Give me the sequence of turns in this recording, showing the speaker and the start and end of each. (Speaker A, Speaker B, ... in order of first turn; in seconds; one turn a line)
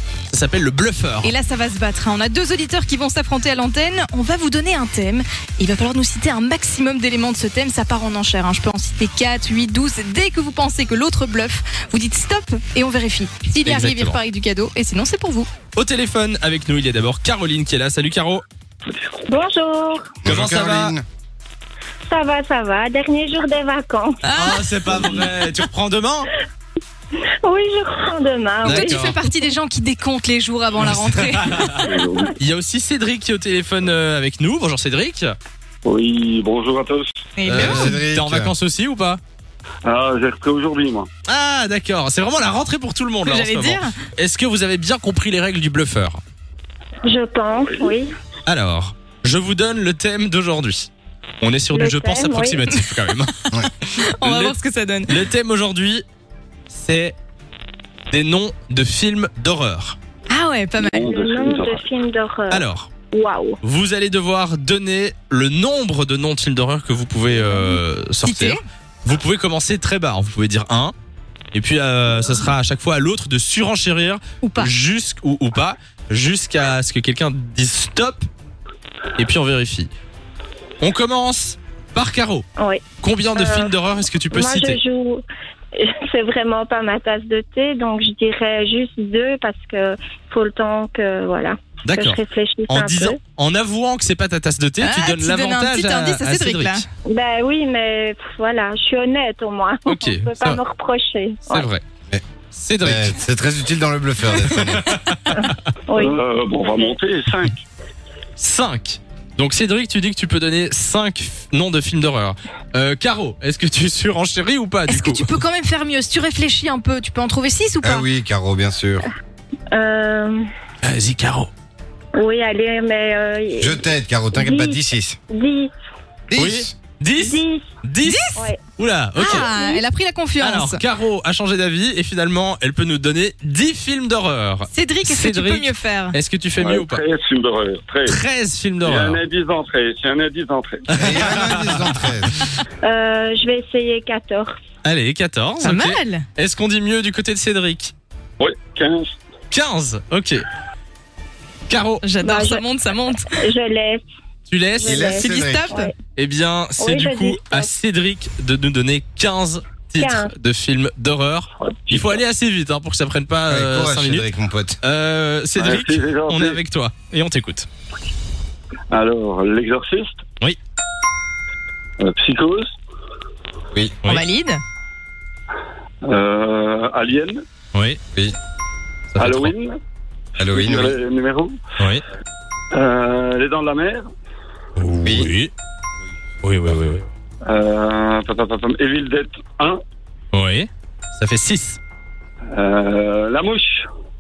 Speaker A: 0.3-1.3
Speaker B: 1.2-15.5
Speaker A: 13.6-14.2
Speaker A: 15.8-18.4
Speaker C: 18.9-19.2
Speaker D: 19.3-20.1
Speaker E: 20.2-21.1
Speaker A: 20.2-21.0
Speaker D: 22.1-24.2
Speaker A: 24.2-26.3
Speaker B: 24.3-24.6
Speaker C: 24.9-25.2
Speaker D: 27.4-29.3
Speaker A: 28.6-29.2
Speaker B: 28.6-31.8
Speaker A: 30.9-35.4
Speaker C: 31.8-32.3
Speaker C: 35.9-37.2
Speaker B: 37.4-38.0
Speaker A: 37.5-39.2
Speaker E: 37.5-38.5
Speaker C: 39.9-41.1
Speaker A: 41.3-46.2
Speaker B: 43.2-44.0
Speaker D: 47.1-48.1
Speaker A: 48.5-50.9
Speaker A: 51.4-53.3
Speaker D: 51.7-52.6
Speaker A: 53.9-54.6
Speaker B: 54.0-55.2
Speaker A: 55.1-56.0
Speaker A: 56.7-57.2
Speaker A: 58.1-60.0
Speaker B: 60.3-61.0
Speaker C: 60.8-61.9
Speaker D: 61.0-63.6
Speaker A: 62.5-62.9
Speaker A: 63.6-70.9
Speaker B: 68.2-68.6
Speaker A: 71.5-78.3
Speaker B: 74.4-74.8
Speaker A: 79.2-79.9
Speaker A: 80.8-82.5
Speaker A: 83.0-84.8
Speaker D: 83.3-83.8
Speaker D: 84.3-85.2
Speaker D: 85.8-93.2
Speaker A: 91.8-96.8
Speaker B: 94.8-96.9
Speaker D: 97.1-101.7
Speaker A: 99.9-100.6
Speaker A: 101.5-101.8
Speaker A: 102.5-103.2
Speaker E: 102.8-104.9
Speaker A: 104.6-105.6
Speaker D: 105.9-107.0
Speaker C: 106.0-107.6
Speaker A: 108.4-115.3
Speaker B: 114.9-118.0
Speaker E: 117.8-119.1
Speaker D: 119.7-120.4
Speaker A: 120.8-121.5
Speaker D: 122.2-125.7
Speaker E: 123.6-125.2
Speaker E: 126.3-126.7
Speaker A: 126.3-129.5
Speaker D: 127.2-127.6
Speaker B: 128.0-128.4
Speaker B: 129.2-130.8
Speaker D: 129.2-129.8
Speaker A: 130.4-137.0
Speaker B: 134.7-136.2
Speaker C: 136.6-138.2
Speaker A: 138.1-139.2
Speaker C: 138.8-140.9
Speaker A: 140.9-142.5
Speaker E: 141.0-142.3
Speaker D: 142.8-144.6
Speaker A: 144.8-147.9
Speaker B: 145.6-146.3
Speaker C: 148.4-149.1
Speaker A: 149.5-150.4
Speaker A: 151.7-152.1
Speaker B: 152.0-153.4
Speaker D: 152.2-152.6
Speaker D: 153.4-154.0
Speaker A: 154.5-155.1
Speaker D: 154.8-155.9
Speaker E: 154.8-155.8
Speaker B: 155.1-155.9
Speaker A: 156.2-164.3
Speaker D: 156.8-157.7
Speaker D: 160.0-160.3
Speaker C: 161.9-162.2
Speaker E: 163.5-164.8
Speaker A: 164.8-167.7
Speaker C: 165.6-166.6
Speaker C: 168.9-170.2
Speaker C: 172.0-172.7
Speaker B: 174.1-174.6
Speaker C: 176.0-177.4
Speaker A: 177.7-178.0
Speaker A: 179.1-179.5
Speaker C: 179.2-179.8
Speaker E: 180.4-181.0
Speaker C: 180.4-181.6
Speaker A: 181.8-182.0
Speaker C: 182.7-184.1
Speaker A: 184.8-185.5
Speaker E: 185.0-185.3
Speaker A: 186.4-187.1
Speaker C: 187.4-189.8
Speaker A: 190.3-191.8
Speaker C: 192.5-193.9